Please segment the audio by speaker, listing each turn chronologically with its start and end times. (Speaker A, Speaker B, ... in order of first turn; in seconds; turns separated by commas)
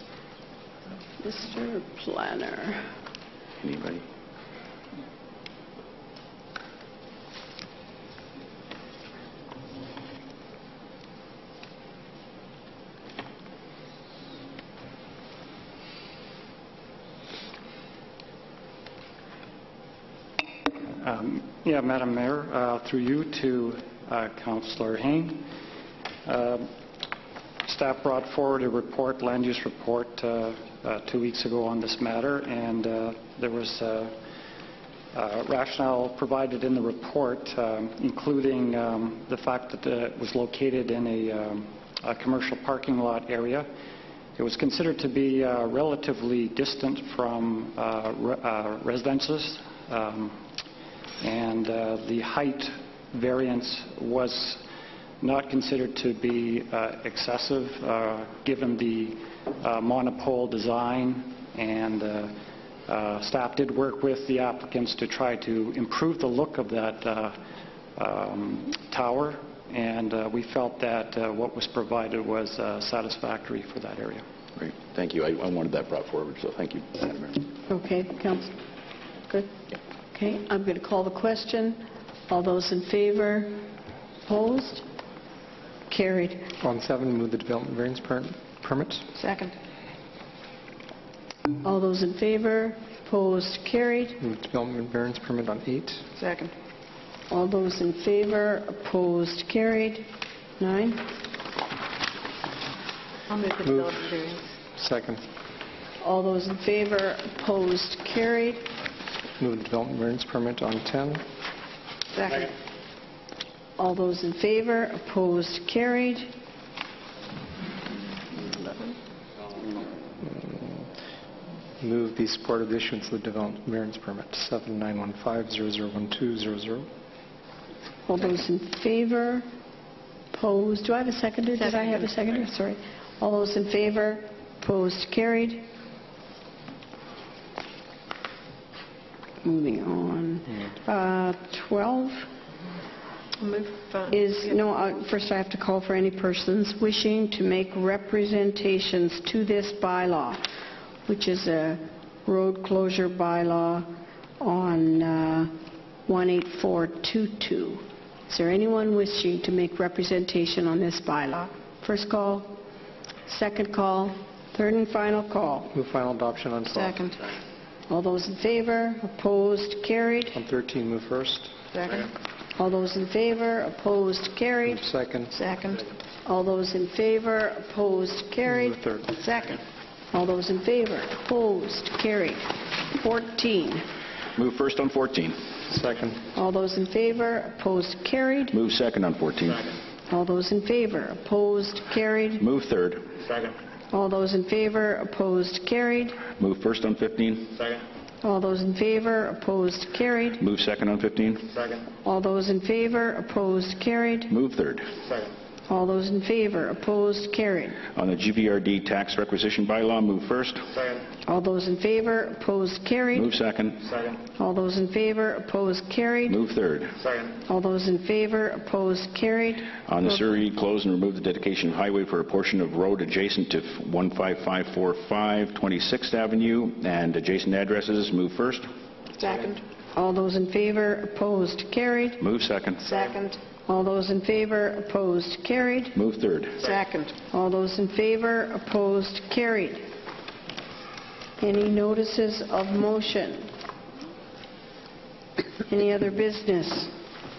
Speaker A: 1.2-2.8, Speaker B: 3.6-4.0, Speaker C: 20.6-25.5, Speaker C: 26.2-26.7, Speaker C: 27.6-34.2, Speaker C: 35.1-43.7, Speaker C: 44.4-50.4, Speaker C: 51.2-54.6, Speaker C: 55.2-62.4, Speaker C: 62.9-67.4, Speaker C: 68.0-74.2, Speaker B: 74.6-77.5, Speaker A: 77.7-78.5, Speaker A: 80.1-83.7, Speaker A: 84.2-84.8, Speaker A: 85.9-86.5, Speaker D: 86.6-89.1, Speaker E: 89.1-89.5, Speaker A: 91.6-94.2, Speaker D: 94.2-96.0, Speaker E: 96.2-96.5, Speaker A: 97.3-100.1, Speaker A: 100.6-101.0, Speaker E: 103.3-104.4, Speaker D: 103.6-104.1, Speaker D: 104.7-105.2, Speaker A: 106.0-108.6, Speaker D: 109.4-111.2, Speaker E: 112.1-112.5, Speaker A: 113.8-116.3, Speaker D: 120.2-120.9, Speaker D: 121.8-126.9, Speaker A: 128.1-129.4, Speaker A: 130.3-135.7, Speaker E: 131.7-132.0, Speaker A: 139.4-142.3, Speaker E: 143.4-144.2, Speaker A: 144.1-150.4, Speaker A: 151.1-153.9, Speaker A: 154.4-155.5, Speaker A: 156.1-162.6, Speaker A: 163.3-165.7, Speaker D: 165.7-167.0, Speaker E: 166.7-167.2, Speaker A: 167.9-170.3, Speaker D: 170.3-171.6, Speaker E: 171.7-172.1, Speaker A: 172.6-174.8, Speaker D: 174.6-175.3, Speaker E: 175.3-175.8, Speaker A: 176.2-178.7, Speaker D: 178.4-179.2, Speaker E: 179.1-179.6, Speaker A: 180.1-183.8, Speaker B: 184.3-185.4, Speaker D: 185.7-186.2, Speaker A: 186.3-188.5, Speaker B: 188.5-189.7, Speaker A: 190.1-192.4, Speaker B: 192.4-193.1, Speaker A: 193.9-196.2, Speaker B: 196.4-197.6, Speaker A: 198.2-200.4, Speaker B: 200.4-201.6, Speaker A: 202.0-204.3, Speaker B: 204.3-204.8, Speaker A: 205.7-207.8, Speaker B: 207.9-210.8, Speaker A: 211.2-213.3, Speaker B: 213.1-214.0, Speaker A: 214.3-216.4, Speaker B: 216.3-216.9, Speaker A: 217.4-219.7, Speaker B: 219.8-228.7, Speaker E: 229.2-229.6, Speaker A: 229.9-232.2, Speaker B: 232.2-232.8, Speaker E: 232.8-233.4, Speaker A: 233.7-235.9, Speaker B: 235.9-236.6, Speaker E: 236.6-237.2, Speaker A: 237.3-239.8, Speaker A: 241.4-243.5, Speaker A: 245.7-246.9